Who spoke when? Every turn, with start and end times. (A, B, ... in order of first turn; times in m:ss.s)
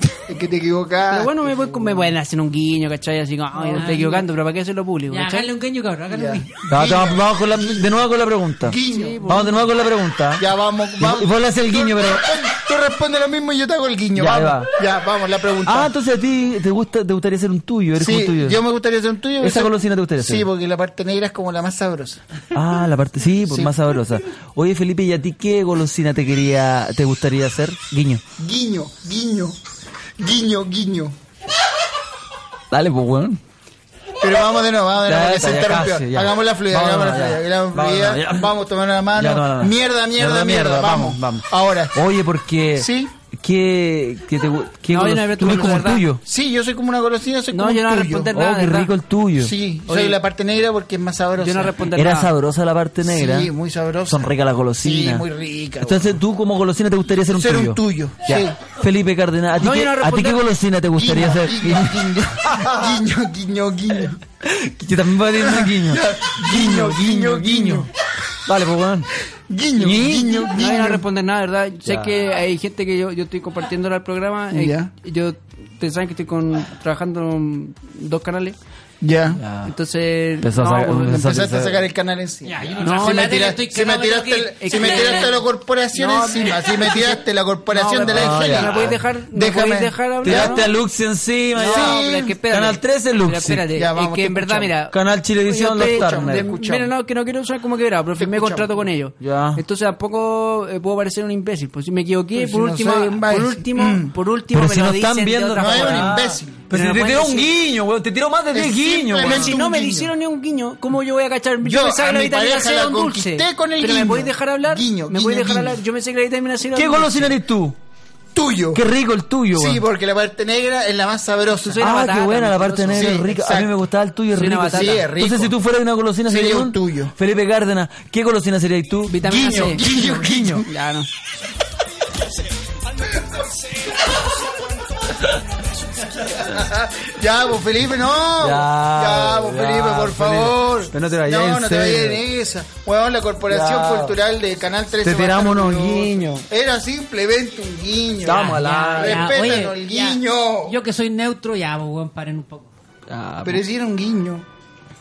0:00.3-0:02.1 A
0:01.1-0:05.5 B
0:03.6-0:04.3 C
0:05.1-0:06.5 C
0:06.1-0:07.9 A
0:06.7-0:10.5 D
0:08.6-0:09.2 A
0:08.9-0:09.6 B
0:10.4-0:15.9 A
0:11.0-0:12.3 D
0:14.2-0:14.7 D
0:15.7-0:18.6 D
0:18.0-0:22.2 A
0:19.4-0:20.5 D
0:22.5-0:28.2 D
0:23.5-0:23.8 A
0:28.4-0:29.6 A
0:30.2-0:31.2 A
0:32.7-0:33.4 D
0:34.2-0:42.0 A
0:35.1-0:38.5 D
0:39.2-0:46.2 D
0:42.8-0:43.1 A
0:44.9-0:46.0 B
0:46.2-0:48.3 A
0:47.5-0:48.9 B
0:48.3-0:49.5 D
0:49.4-0:51.9 A
0:49.9-0:50.2 B
0:51.4-0:52.3 B
0:52.0-0:53.5 D
0:53.0-0:56.2 A
0:54.1-0:55.3 D
0:55.8-1:02.9 D
0:57.3-0:58.6 A
0:59.6-1:00.4 B
1:01.0-1:04.2 A
1:04.4-1:07.9 D
1:05.4-1:07.9 A
1:08.5-1:09.1 D
1:09.5-1:11.0 A
1:09.8-1:10.6 D
1:10.6-1:18.6 B
1:11.9-1:12.1 D
1:14.5-1:14.9 A
1:19.0-1:19.4 A
1:19.4-1:19.7 D
1:19.6-1:21.2 B
1:20.4-1:21.8 D
1:21.0-1:30.7 A
1:22.4-1:25.4 C
1:22.8-1:23.4 B
1:24.6-1:25.4 B
1:25.9-1:30.7 B
1:28.0-1:29.0 D
1:30.2-1:33.7 D
1:31.6-1:47.5 B
1:31.6-1:32.4 A
1:33.7-1:34.8 A
1:34.9-1:36.5 D
1:35.7-1:36.9 A
1:38.2-1:38.9 A
1:39.2-1:39.6 D
1:42.3-1:44.1 A
1:44.5-1:49.6 D
1:45.6-1:46.6 A
1:48.5-1:50.1 A
1:49.2-1:57.4 B
1:51.6-1:55.8 A
1:56.7-1:57.8 D
1:58.3-1:58.8 A
1:58.7-1:59.8 D
1:59.5-2:02.0 A
2:01.6-2:03.3 B
2:01.8-2:10.6 D
2:02.9-2:03.7 A
2:04.3-2:05.0 B
2:04.7-2:05.6 A
2:06.2-2:07.1 A
2:09.1-2:11.1 B
2:09.2-2:10.7 A
2:13.2-2:14.6 A
2:16.2-2:30.8 A
2:18.4-2:22.2 D
2:23.5-2:24.2 D
2:25.0-2:26.4 D
2:28.2-2:29.4 D
2:28.2-2:32.7 C
2:33.1-2:33.6 D
2:33.4-2:34.5 A